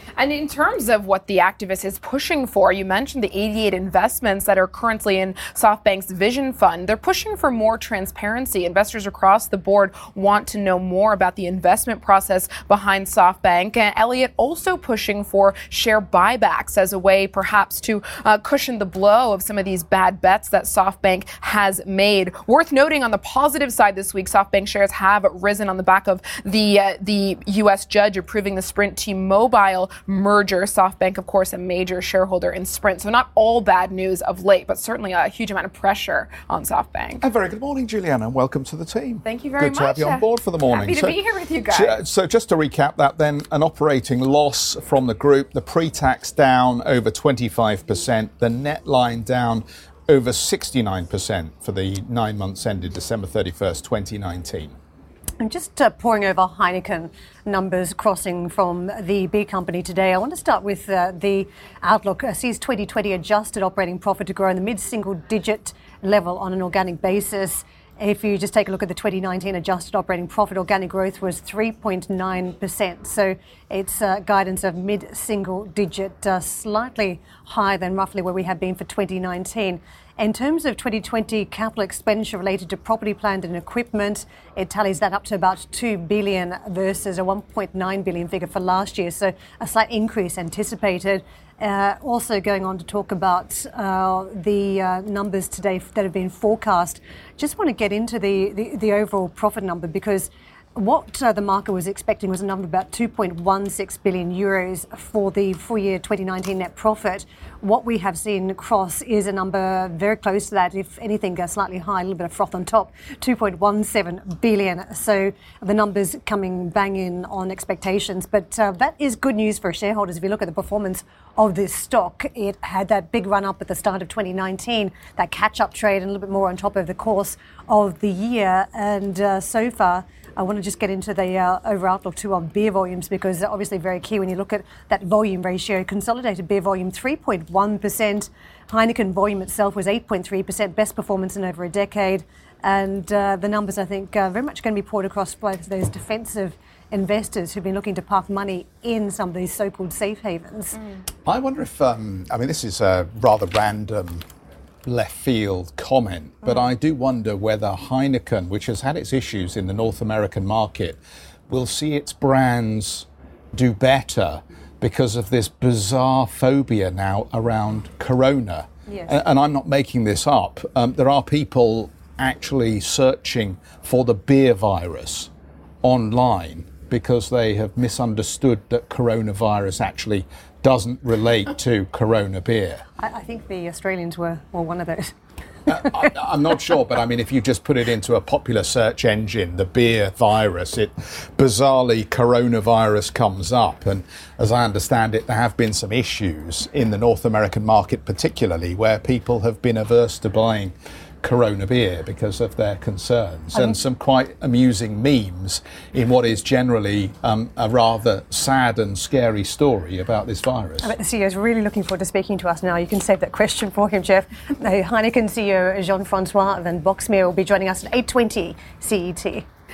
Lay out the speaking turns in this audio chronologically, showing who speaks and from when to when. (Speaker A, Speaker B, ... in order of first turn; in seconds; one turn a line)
Speaker A: 0.2-37.2
Speaker B: 37.2-54.7
Speaker A: 39.2-42.0
Speaker C: 55.4-150.8
Speaker B: 151.3-154.2
Speaker B: 154.8-161.0
Speaker B: 161.5-175.3
Speaker C: 168.9-169.2
Speaker B: 175.8-182.8
Speaker C: 183.0-185.1
Speaker B: 185.7-210.9
Speaker C: 210.8-219.4